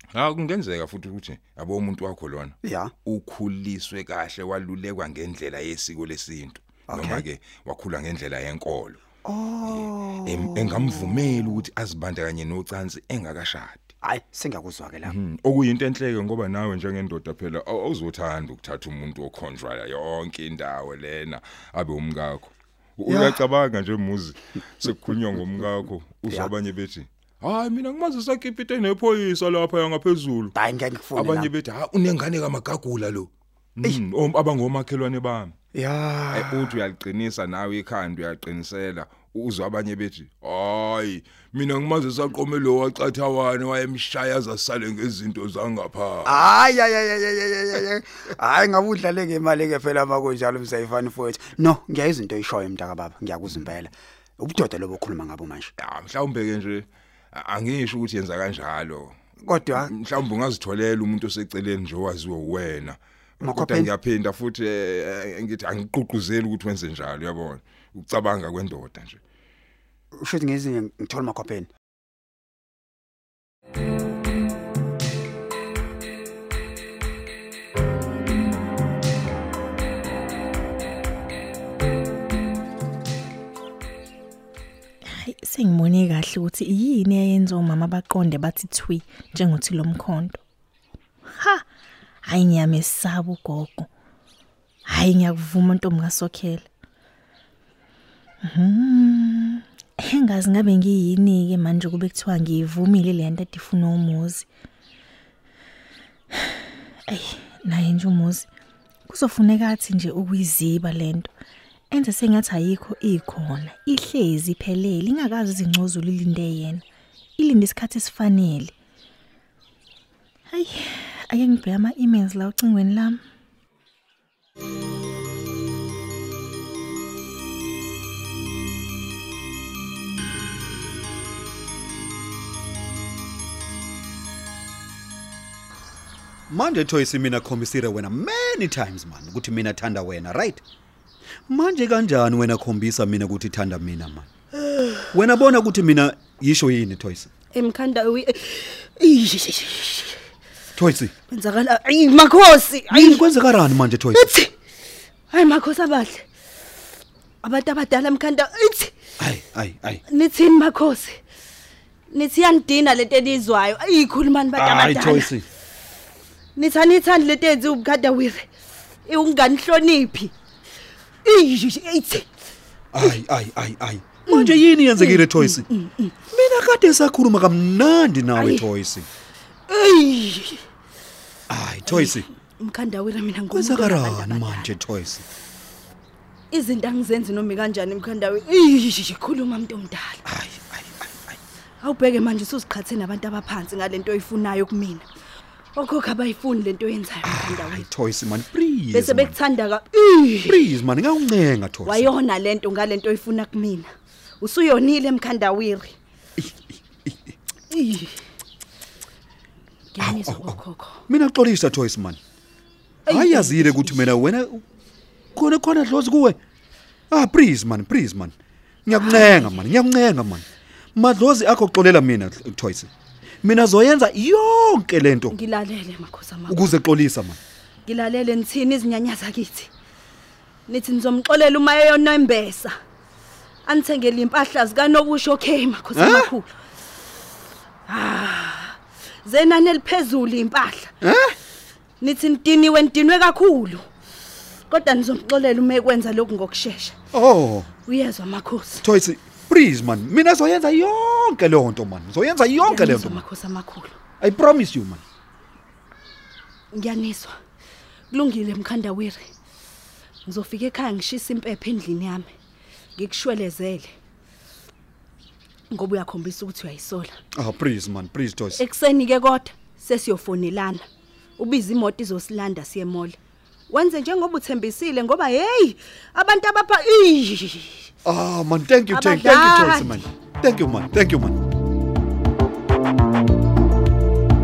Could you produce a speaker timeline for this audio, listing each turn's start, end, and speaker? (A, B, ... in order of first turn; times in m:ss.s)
0:00.1-0:09.0 A
0:02.6-0:02.9 B
0:06.9-0:07.2 B
0:09.2-0:11.6 B
0:09.6-0:13.9 A
0:14.0-0:15.1 B
0:15.0-0:30.5 A
0:23.1-0:23.4 B
0:30.5-0:31.5 B
0:31.2-0:35.5 A
0:35.7-0:36.8 B
0:36.3-0:46.4 A
0:46.2-0:55.7 B
0:55.8-0:59.2 A
0:59.4-0:59.9 B
0:59.7-1:09.2 A
1:03.4-1:03.9 B
1:10.2-1:11.7 B
1:25.0-1:30.4 C
1:31.3-1:31.6 C
1:32.2-1:33.9 C
1:34.8-1:36.7 C
1:38.4-1:44.5 C
1:46.3-1:48.5 C
1:49.1-1:51.3 C
1:51.9-1:56.8 C
1:57.4-1:58.7 C
2:00.5-2:03.2 C
2:16.5-2:20.6 D
2:21.5-2:24.3 D
2:25.1-2:27.3 D
2:27.5-2:30.2 E
2:30.8-2:31.1 D
2:31.3-2:33.3 E
2:32.9-2:34.3 D
2:34.1-2:34.5 E
2:35.3-2:36.2 E
2:37.4-2:38.9 E
2:39.2-2:40.0 D
2:40.1-2:41.2 E
2:42.1-2:45.3 E
2:44.6-2:45.4 D
2:46.6-2:48.5 E
2:49.0-2:50.3 E
2:51.2-2:52.2 E
2:52.9-2:55.7 D
2:54.3-2:56.1 E
2:56.3-2:59.1 D
2:58.4-2:58.6 E
2:59.7-3:00.6 E
3:01.5-3:02.3 D
3:01.8-3:04.7 E
3:03.5-3:05.2 D
3:06.5-3:10.2 E
3:10.2-3:11.4 D
3:11.8-3:15.0 E
3:15.8-3:17.8 E
3:17.2-3:19.4 D
3:18.9-3:20.7 E
3:20.4-3:22.1 D
3:21.8-3:23.9 E
3:24.4-3:25.9 E
3:26.4-3:27.3 D
3:27.7-3:28.2 E
3:29.9-3:31.0 E
3:30.0-3:32.2 D
3:33.1-3:34.1 E
3:33.1-3:34.6 D
3:35.4-3:36.4 D
3:37.1-3:38.3 D
3:38.8-3:42.9 D
3:39.0-3:39.6 E
3:43.4-3:45.4 D
3:45.3-3:46.6 E
3:46.5-3:47.4 D
3:47.8-3:49.7 E
3:50.7-3:52.7 E
3:53.6-3:56.5 E
3:55.9-3:56.3 D
3:57.9-4:00.9 E
4:01.0-4:01.4 D
4:02.0-4:03.8 E
4:04.7-4:06.9 E
4:07.1-4:07.7 D
4:07.8-4:08.8 E
4:08.8-4:13.2 D
4:12.6-4:14.0 E
4:14.2-4:15.0 D
4:16.7-4:17.3 E
4:18.1-4:19.2 E
4:20.2-4:22.3 E
4:23.0-4:23.9 E
4:25.7-4:27.1 E
4:27.4-4:28.6 D
4:28.6-4:30.8 E
4:31.4-4:33.2 E
4:33.7-4:37.9 E
4:38.0-4:41.4 D
4:38.9-4:40.0 E